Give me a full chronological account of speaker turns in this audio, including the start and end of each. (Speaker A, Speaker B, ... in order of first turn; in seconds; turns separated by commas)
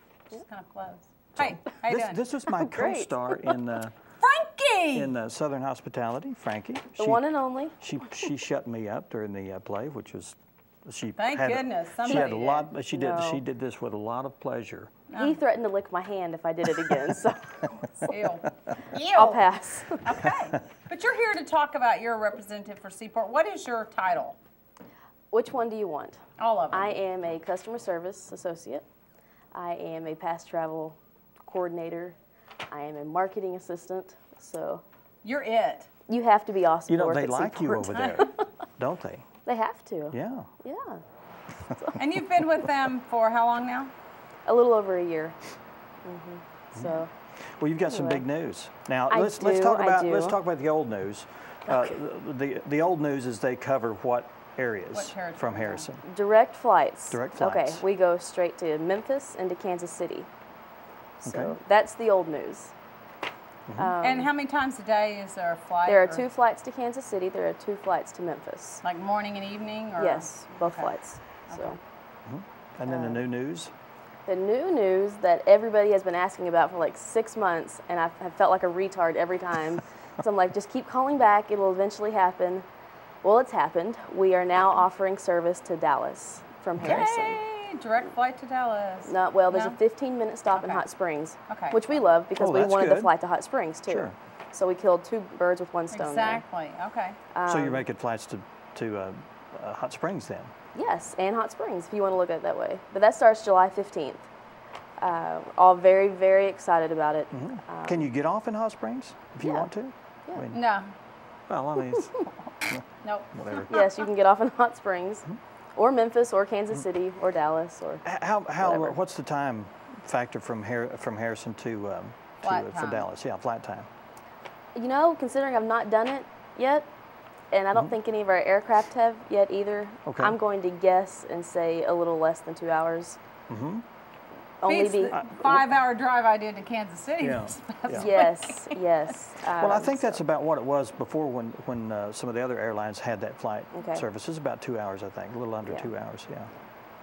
Speaker A: 0.3-2.2, Speaker B: 1.4-4.0, Speaker C: 2.5-3.5, Speaker A: 4.2-5.2, Speaker B: 4.9-14.9, Speaker C: 7.0-7.8, Speaker A: 11.2-12.7, Speaker C: 12.1-12.4, Speaker C: 12.9-13.4, Speaker A: 15.1-15.4, Speaker C: 15.1-18.1, Speaker A: 18.1-24.4, Speaker C: 19.1-20.1, Speaker C: 25.3-28.9, Speaker A: 26.4-26.9, Speaker C: 29.5-32.2, Speaker C: 32.7-34.8, Speaker A: 35.2-35.9, Speaker C: 36.1-38.5, Speaker B: 36.9-39.3, Speaker A: 38.0-38.2, Speaker C: 39.5-41.0, Speaker B: 40.1-40.5, Speaker C: 41.7-42.0, Speaker A: 42.0-43.9, Speaker C: 44.5-45.4, Speaker C: 46.0-47.1, Speaker B: 46.8-56.0, Speaker C: 47.9-48.2, Speaker C: 49.1-50.4, Speaker A: 54.9-55.9, Speaker C: 56.0-60.3, Speaker B: 57.1-57.8, Speaker C: 61.2-62.7, Speaker B: 61.2-61.6, Speaker B: 63.7-63.9, Speaker C: 63.8-64.3, Speaker A: 64.0-66.2, Speaker C: 65.9-68.8, Speaker A: 68.8-70.9, Speaker C: 70.0-71.8, Speaker A: 71.5-71.8, Speaker B: 72.3-73.7, Speaker C: 72.9-73.2, Speaker C: 74.3-82.7, Speaker C: 83.2-87.4, Speaker A: 86.8-89.8, Speaker C: 89.1-96.4, Speaker A: 90.5-90.8, Speaker A: 91.5-92.0, Speaker B: 92.3-93.1, Speaker B: 93.9-94.2, Speaker A: 95.9-97.2, Speaker C: 97.3-97.8, Speaker B: 97.5-100.5, Speaker C: 100.8-104.3, Speaker C: 105.0-108.1, Speaker B: 107.3-110.6, Speaker C: 109.4-109.7, Speaker A: 110.5-110.9, Speaker B: 111.5-113.8, Speaker A: 113.0-113.7, Speaker C: 113.7-118.1, Speaker B: 118.0-123.9, Speaker C: 118.6-119.0, Speaker A: 122.4-123.1, Speaker C: 124.8-126.9, Speaker C: 127.5-133.2, Speaker B: 130.1-130.4, Speaker B: 133.5-133.8, Speaker C: 134.6-135.2, Speaker A: 134.7-138.8, Speaker B: 135.1-135.7, Speaker B: 137.2-138.1, Speaker C: 137.9-140.2, Speaker B: 139.5-146.5, Speaker C: 143.7-144.1